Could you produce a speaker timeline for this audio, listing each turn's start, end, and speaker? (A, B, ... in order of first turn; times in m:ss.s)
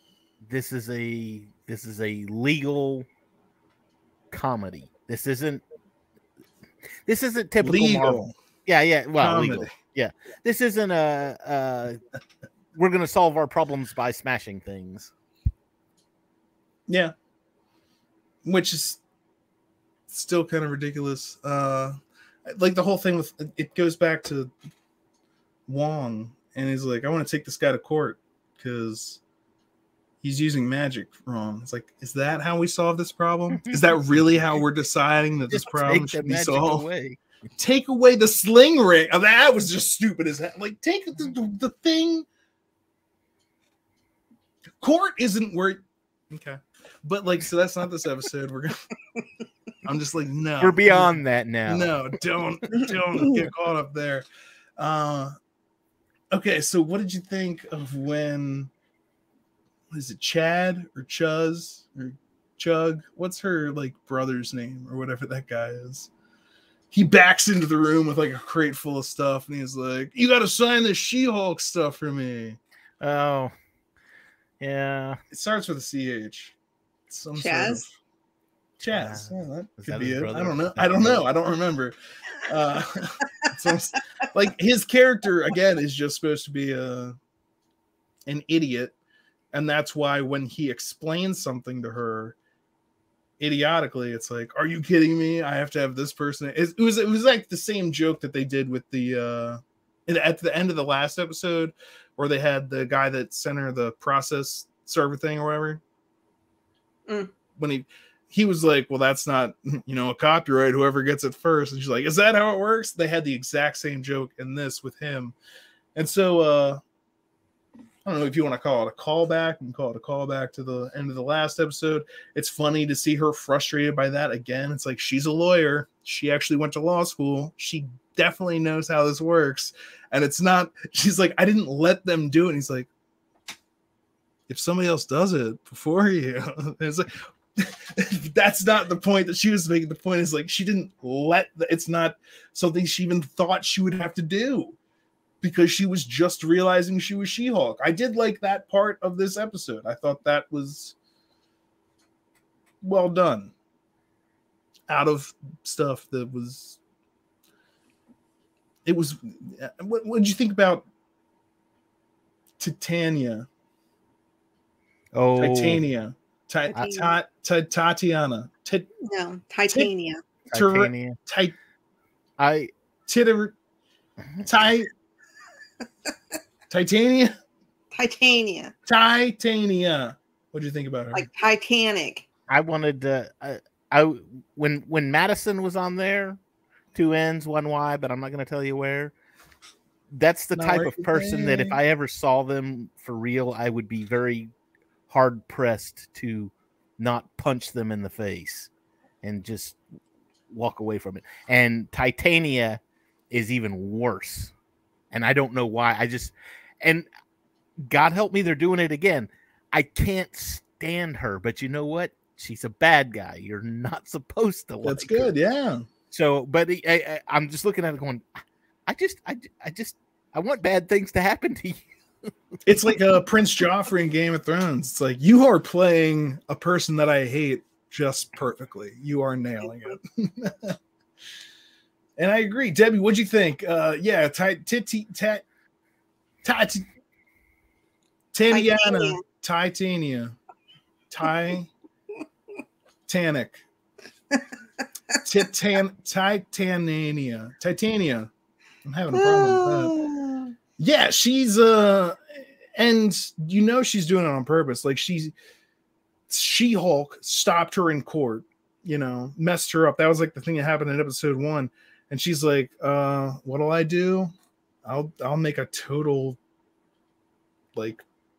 0:00.4-0:03.1 A
0:04.3-0:05.6 A
0:07.1-0:12.0 A
0:07.6-0:08.3 B
0:09.2-0:09.7 B
0:12.7-0:15.1 A
0:16.9-0:17.1 B
0:18.4-0:19.0 B
0:20.1-0:24.5 B
0:25.7-0:29.2 B
0:30.2-0:36.8 B
0:35.5-0:37.2 A
0:37.6-0:42.3 B
0:44.8-0:48.8 B
0:49.8-0:54.2 B
0:50.6-0:52.0 A
0:54.8-0:55.3 B
0:56.3-0:58.7 B
0:59.9-1:06.1 B
1:06.9-1:12.6 B
1:13.0-1:13.5 A
1:14.6-1:15.2 A
1:15.3-1:16.5 B
1:17.1-1:17.9 B
1:17.4-1:17.8 C
1:18.8-1:27.2 B
1:18.8-1:21.2 A
1:28.2-1:28.9 B
1:29.5-1:32.4 B
1:33.4-1:45.8 B
1:47.6-1:55.4 B
1:55.9-1:56.8 B
1:58.0-2:12.9 B
2:14.5-2:24.8 B
2:25.4-2:31.0 B
2:32.8-2:33.5 B
2:34.9-2:36.8 B
2:38.8-2:40.8 B
2:42.6-2:43.5 B
2:45.1-2:45.8 A
2:45.4-2:48.9 B
2:46.7-2:47.1 C
2:49.0-2:50.2 C
2:50.5-2:51.2 A
2:50.5-2:51.6 B
2:52.4-2:52.7 A
2:53.1-2:53.6 B
2:54.4-2:54.9 B
2:56.7-2:57.3 B
2:57.9-2:58.7 C
2:58.9-3:01.3 B
3:01.1-3:02.2 C
3:02.5-3:06.4 A
3:06.9-3:09.1 A
3:10.1-3:14.5 A
3:10.6-3:11.8 B
3:15.1-3:18.7 A
3:19.2-3:19.8 A
3:20.5-3:24.5 A
3:25.1-3:27.1 A
3:27.8-3:35.3 A
3:34.8-3:35.8 B
3:36.1-3:38.2 A
3:38.9-3:41.8 A
3:42.6-3:50.8 B
3:52.2-3:55.4 B
3:56.4-3:56.9 B
3:58.3-4:00.4 B
3:58.5-3:59.2 C
4:01.1-4:01.7 B
4:03.1-4:03.6 B
4:05.2-4:08.3 B
4:08.8-4:09.9 B
4:09.1-4:10.5 C
4:10.8-4:15.3 B
4:16.3-4:24.3 B
4:24.8-4:26.4 B
4:27.7-4:28.0 B